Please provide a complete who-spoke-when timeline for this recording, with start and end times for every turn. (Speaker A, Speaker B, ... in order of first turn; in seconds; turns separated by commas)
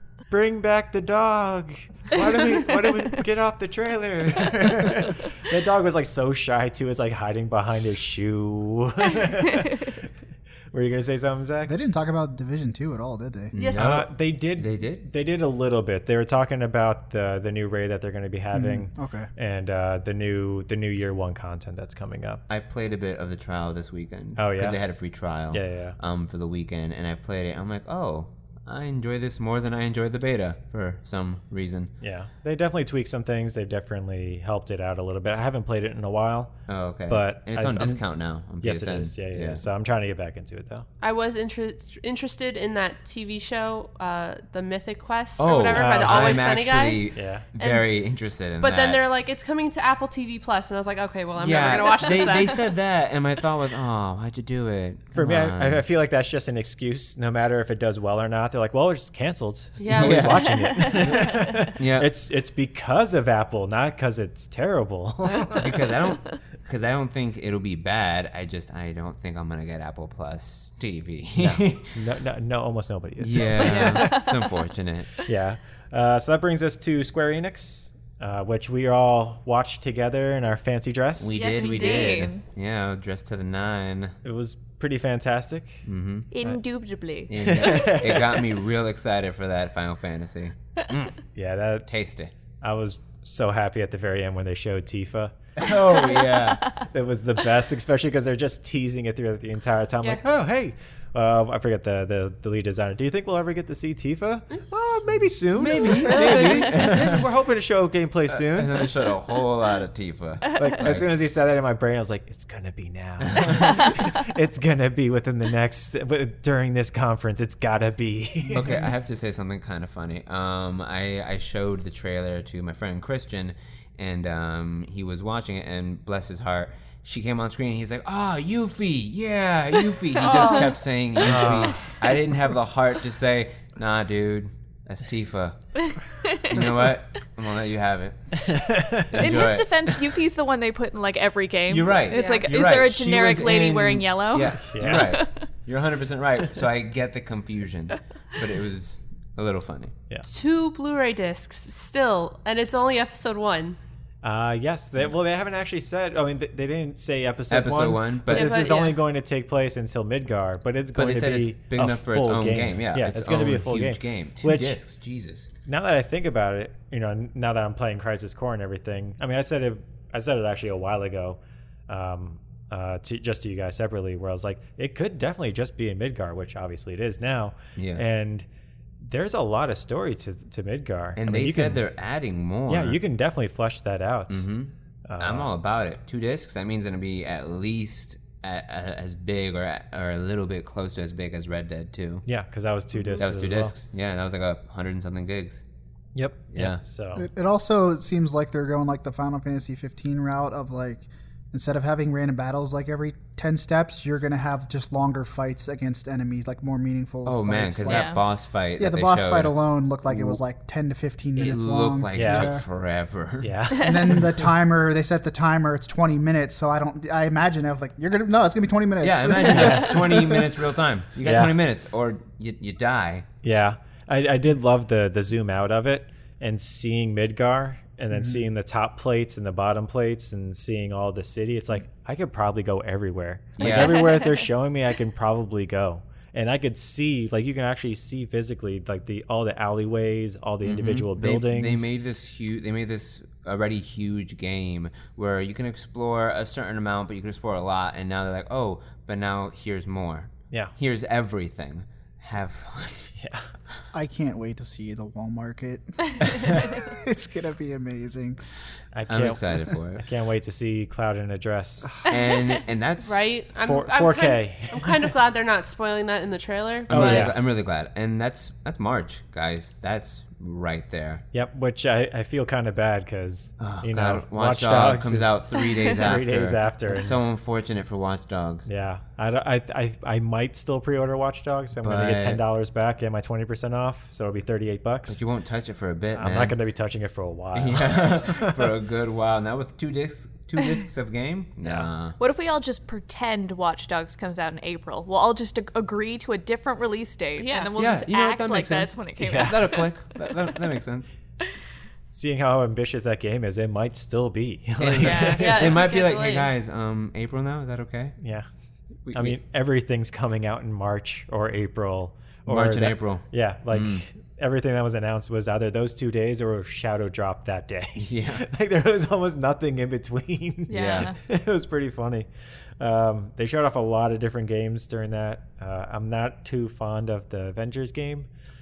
Speaker A: 0.3-9.9, Speaker A: 10.7-11.8, Speaker B: 11.7-13.5, Speaker C: 13.5-15.1, Speaker D: 13.5-13.9, Speaker A: 13.7-22.4, Speaker B: 18.5-19.3, Speaker C: 22.5-31.9, Speaker A: 24.4-24.8, Speaker A: 25.5-26.0, Speaker A: 32.0-36.5, Speaker C: 36.7-39.6, Speaker A: 37.1-38.0, Speaker A: 38.6-40.9, Speaker D: 41.0-48.0, Speaker C: 45.4-49.0, Speaker A: 45.7-46.5, Speaker A: 47.1-47.5, Speaker D: 48.6-52.7, Speaker C: 51.3-55.8, Speaker A: 55.1-65.7, Speaker D: 59.8-60.5, Speaker C: 59.9-62.1, Speaker E: 60.5-61.7, Speaker C: 65.5-72.0, Speaker A: 71.4-74.3, Speaker C: 73.2-75.1, Speaker D: 73.6-74.1, Speaker E: 73.7-74.5, Speaker A: 75.2-81.5, Speaker C: 81.2-84.2, Speaker D: 81.3-82.3, Speaker E: 81.6-82.4, Speaker A: 84.2-85.8, Speaker C: 85.8-86.3, Speaker E: 86.3-87.9, Speaker C: 87.3-91.2, Speaker A: 87.4-88.4, Speaker A: 91.3-91.9, Speaker C: 91.9-92.3, Speaker A: 92.6-95.3, Speaker C: 95.6-96.7, Speaker A: 96.8-108.9, Speaker C: 105.5-107.3, Speaker C: 108.3-111.1, Speaker A: 110.5-118.8, Speaker C: 113.3-113.9, Speaker C: 118.5-135.6, Speaker D: 130.2-130.8, Speaker E: 130.2-130.7, Speaker A: 131.2-131.9, Speaker E: 135.8-136.7, Speaker C: 136.4-138.4, Speaker A: 138.4-139.5, Speaker C: 139.1-140.0, Speaker E: 139.2-145.5, Speaker C: 141.7-149.9, Speaker D: 142.1-142.5, Speaker A: 144.7-145.1, Speaker D: 150.2-153.8, Speaker A: 154.2-164.8, Speaker C: 157.5-158.7, Speaker D: 158.3-159.0, Speaker C: 160.9-165.5, Speaker A: 165.7-178.4, Speaker C: 177.7-178.0, Speaker A: 179.0-181.8, Speaker C: 181.2-183.0, Speaker A: 182.7-184.5, Speaker C: 184.3-192.2, Speaker A: 185.1-185.5, Speaker A: 192.2-193.7, Speaker C: 193.1-195.6, Speaker A: 196.1-197.3, Speaker C: 196.5-196.8, Speaker B: 197.2-208.2, Speaker C: 207.2-209.6, Speaker E: 207.8-208.2, Speaker B: 208.8-212.6, Speaker C: 210.1-210.4, Speaker C: 211.4-213.6, Speaker A: 212.1-212.5, Speaker A: 213.4-214.1, Speaker B: 213.8-220.5, Speaker C: 219.0-223.4, Speaker A: 219.4-219.9, Speaker A: 221.2-221.5, Speaker A: 223.4-241.9, Speaker C: 233.6-234.1, Speaker C: 240.6-253.2, Speaker A: 253.2-253.4, Speaker B: 253.9-258.4, Speaker A: 258.9-262.1, Speaker C: 259.1-260.1, Speaker C: 262.0-263.2, Speaker D: 263.1-267.3, Speaker A: 263.6-265.1, Speaker C: 266.9-271.2, Speaker A: 266.9-267.4, Speaker A: 271.3-277.2, Speaker C: 273.6-278.7, Speaker A: 278.6-285.2, Speaker C: 281.8-282.4, Speaker C: 285.1-286.6, Speaker A: 286.1-288.7, Speaker C: 287.5-292.2, Speaker A: 291.6-291.9, Speaker E: 292.2-300.5, Speaker D: 297.4-297.7, Speaker C: 297.8-301.1, Speaker A: 299.2-299.6, Speaker A: 302.1-305.7, Speaker C: 304.8-308.1, Speaker E: 305.0-305.5, Speaker D: 305.4-306.5, Speaker A: 308.2-308.4, Speaker C: 309.1-309.4, Speaker A: 309.1-322.3, Speaker C: 312.5-314.0, Speaker C: 317.9-318.4, Speaker E: 320.7-321.1, Speaker C: 320.7-321.1, Speaker A: 322.8-328.3